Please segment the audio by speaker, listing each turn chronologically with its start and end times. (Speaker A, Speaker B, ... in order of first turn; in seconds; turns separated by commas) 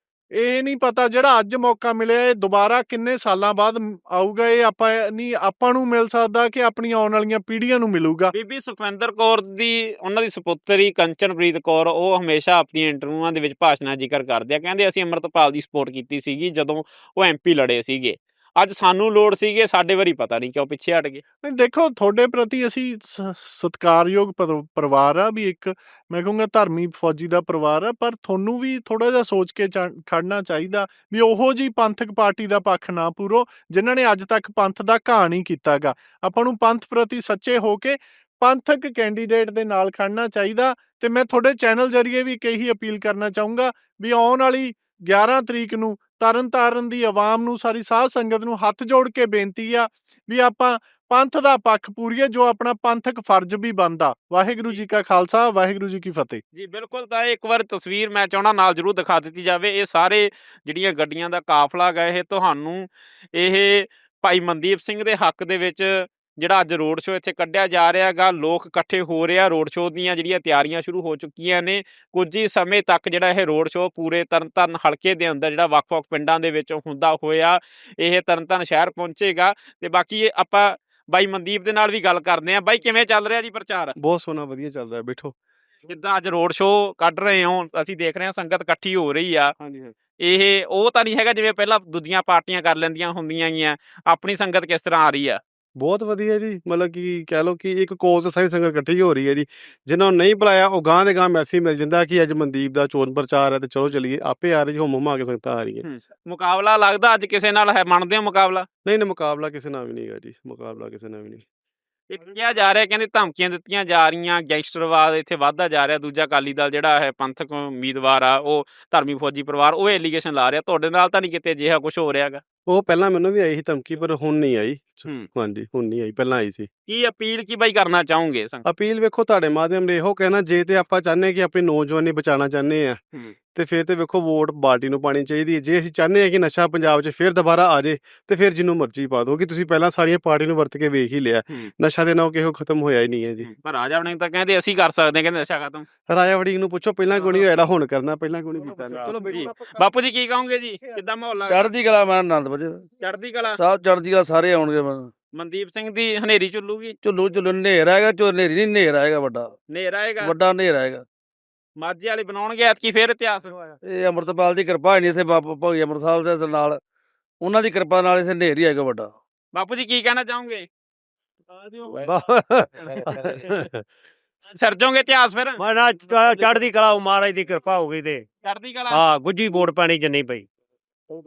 Speaker A: 0.4-8.3, Speaker B: 8.3-21.2, Speaker A: 21.4-56.4, Speaker B: 56.5-83.9, Speaker C: 84.0-85.3, Speaker B: 85.9-89.5, Speaker C: 89.6-89.9, Speaker B: 90.2-95.4, Speaker C: 95.8-105.8, Speaker B: 105.8-108.7, Speaker C: 108.8-111.4, Speaker B: 112.1-122.4, Speaker C: 122.7-126.7, Speaker B: 126.9-128.6, Speaker C: 128.6-133.0, Speaker C: 133.5-143.5, Speaker B: 143.4-145.8, Speaker C: 146.1-149.5, Speaker B: 149.2-151.7, Speaker D: 151.5-152.9, Speaker B: 153.0-153.6, Speaker D: 153.5-155.1, Speaker B: 155.3-156.9, Speaker D: 157.0-159.5, Speaker B: 159.7-160.3, Speaker D: 160.2-161.0, Speaker B: 161.8-163.5, Speaker D: 163.8-166.8, Speaker D: 167.4-169.1, Speaker B: 169.5-170.7, Speaker E: 172.1-172.5, Speaker D: 173.1-173.3, Speaker B: 174.5-175.6, Speaker E: 175.6-176.9, Speaker D: 176.2-176.5, Speaker E: 177.7-178.1, Speaker B: 178.4-179.0, Speaker E: 179.0-180.4